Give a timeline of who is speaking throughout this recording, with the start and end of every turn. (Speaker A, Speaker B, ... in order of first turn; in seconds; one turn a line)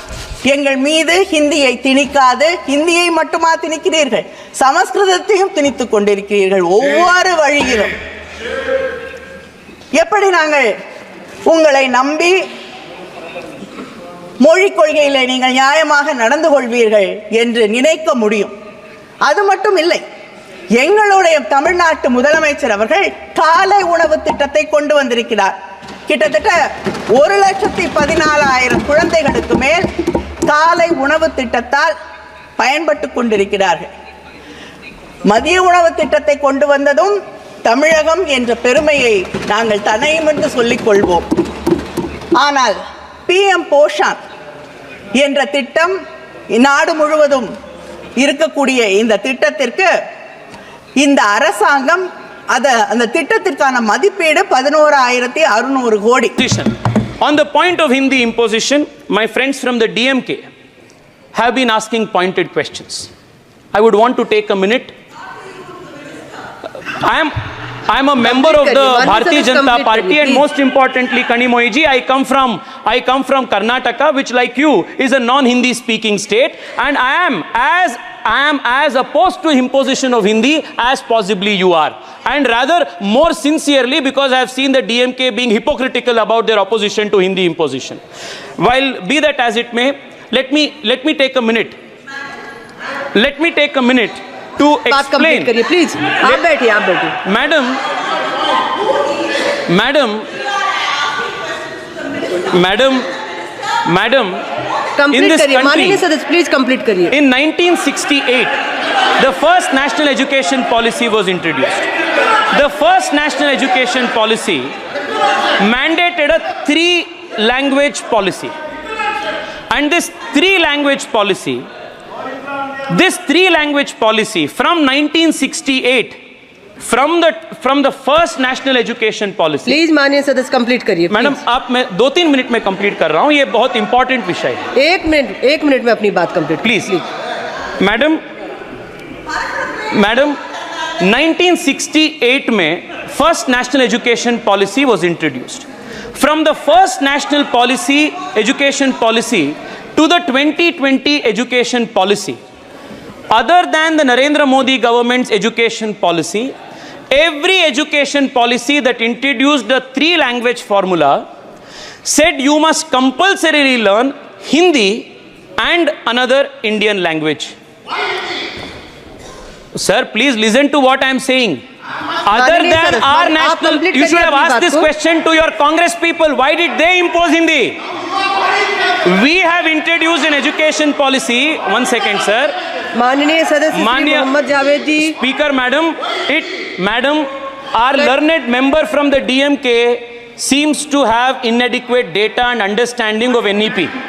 Speaker A: 0.5-7.9
Speaker A: 9.9-10.7
Speaker A: 11.5-12.4
Speaker A: 14.4-18.5
Speaker A: 19.2-20.0
Speaker A: 20.8-25.5
Speaker A: 26.1-26.6
Speaker A: 27.1-29.8
Speaker A: 30.5-31.9
Speaker A: 32.6-33.9
Speaker A: 35.3-41.3
Speaker A: 42.4-44.2
Speaker A: 45.2-46.0
Speaker A: 46.5-47.5
Speaker A: 48.2-49.9
Speaker A: 51.0-56.4
Speaker B: 56.4-60.5
Speaker B: 61.3-63.1
Speaker B: 63.7-64.9
Speaker B: 66.9-67.4
Speaker B: 67.9-88.0
Speaker C: 68.2-70.4
Speaker B: 88.6-91.8
Speaker B: 93.1-95.5
Speaker C: 94.9-97.2
Speaker B: 97.2-97.8
Speaker B: 99.7-100.3
Speaker B: 102.5-103.1
Speaker B: 103.9-104.4
Speaker C: 105.0-107.1
Speaker B: 105.1-106.0
Speaker B: 107.1-108.5
Speaker B: 109.2-111.9
Speaker B: 112.5-114.7
Speaker B: 115.6-118.5
Speaker B: 119.7-121.7
Speaker B: 122.9-126.2
Speaker B: 126.8-129.8
Speaker C: 129.7-131.4
Speaker B: 131.1-134.6
Speaker C: 134.7-137.0
Speaker B: 136.6-137.0
Speaker B: 137.8-138.2
Speaker B: 139.9-140.4
Speaker B: 141.0-152.4
Speaker B: 153.3-156.5
Speaker B: 157.1-161.2
Speaker B: 162.0-167.5
Speaker B: 169.7-171.6
Speaker B: 172.2-177.8
Speaker C: 172.3-174.9
Speaker B: 179.0-182.5
Speaker C: 182.9-185.1
Speaker B: 183.7-184.3
Speaker B: 185.0-193.9